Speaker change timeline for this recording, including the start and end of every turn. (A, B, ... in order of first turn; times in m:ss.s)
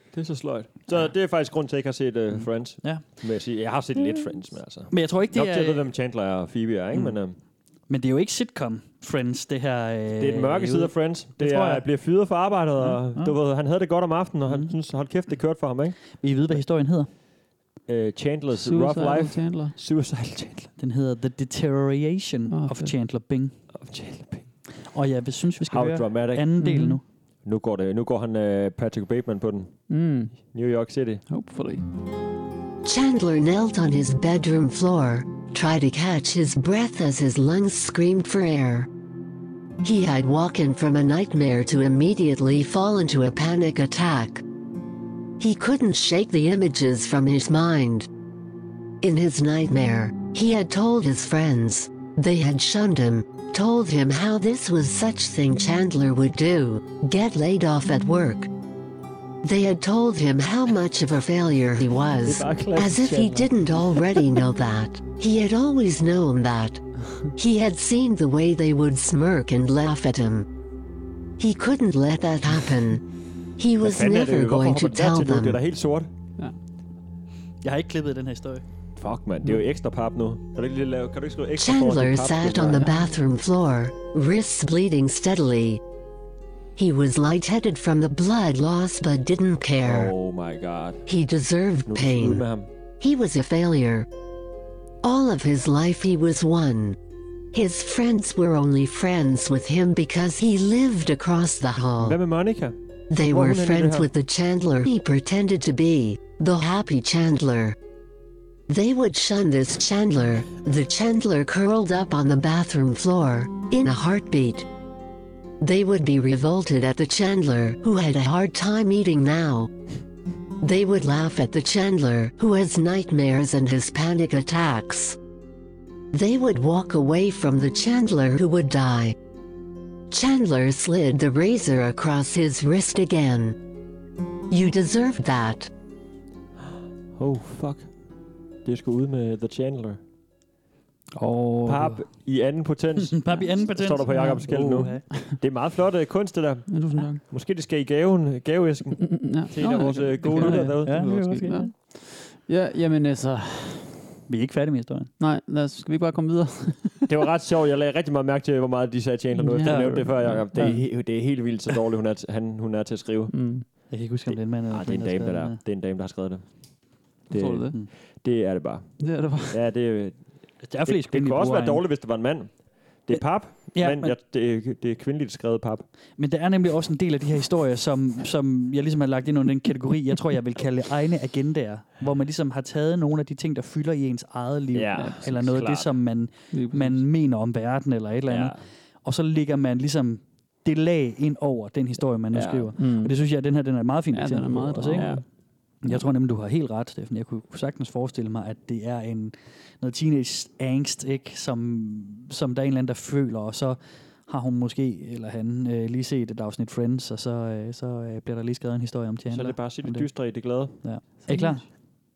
0:00.1-0:07.4 A
0:04.9-0:05.9 B
0:07.9-0:11.8 B
0:10.2-0:16.2 A
0:12.8-0:13.3 B
0:14.5-0:14.7 B
0:16.2-0:17.1 B
0:17.9-0:20.7 A
0:18.6-0:19.7 C
0:20.8-0:23.6 B
0:22.5-0:22.9 C
0:23.7-0:24.5 A
0:24.9-0:27.0 B
0:25.6-0:26.5 A
0:26.6-0:27.0 C
0:27.4-0:29.8 A
0:29.9-0:30.5 C
0:30.5-0:31.2 A
0:31.3-0:31.8 C
0:32.8-0:38.9 D
0:39.8-0:44.4 D
0:45.4-0:48.1 D
0:49.0-0:58.5 D
0:59.4-1:06.8 D
1:02.2-1:04.0 A
1:07.4-1:10.5 D
1:11.4-1:13.0 D
1:13.6-1:15.6 D
1:13.8-1:16.1 A
1:17.6-1:18.6 B
1:19.0-1:22.9 A
1:21.6-1:25.8 D
1:26.8-1:30.1 D
1:29.8-1:31.0 A
1:31.0-1:32.4 D
1:31.9-1:32.7 A
1:33.0-1:34.1 D
1:35.0-1:37.0 D
1:37.5-1:42.2 D
1:42.0-1:44.1 A
1:43.1-1:47.8 D
1:48.7-1:54.6 D
1:55.6-1:59.7 D
2:00.6-2:05.2 D
2:06.1-2:09.2 D
2:10.1-2:13.6 D
2:14.5-2:15.7 D
2:17.2-2:17.9 A
2:18.6-2:20.0 A
2:21.2-2:22.1 B
2:21.6-2:31.3 A
2:23.0-2:25.0 B
2:24.1-2:25.4 C
2:26.7-2:27.2 C
2:29.0-2:34.0 C
2:30.3-2:31.7 B
2:34.3-2:35.1 B
2:35.2-2:37.0 C
2:37.1-2:43.7 A
2:39.4-2:40.8 C
2:39.6-2:40.8 B
2:43.3-2:43.6 C
2:43.9-2:45.6 B
2:44.3-2:46.7 A
2:47.3-2:55.8 A
2:47.3-2:47.7 C
2:49.0-2:49.6 C
2:50.6-2:51.8 B
2:53.7-2:54.2 B
2:56.2-3:15.2 B
3:04.7-3:06.0 A
3:06.5-3:07.0 C
3:08.3-3:08.6 A
3:12.3-3:12.7 A
3:12.8-3:13.1 C
3:14.1-3:15.2 C
3:14.9-3:15.2 A
3:15.8-3:30.1 B
3:29.3-3:30.8 A
3:30.8-3:31.7 B
3:31.3-3:31.6 C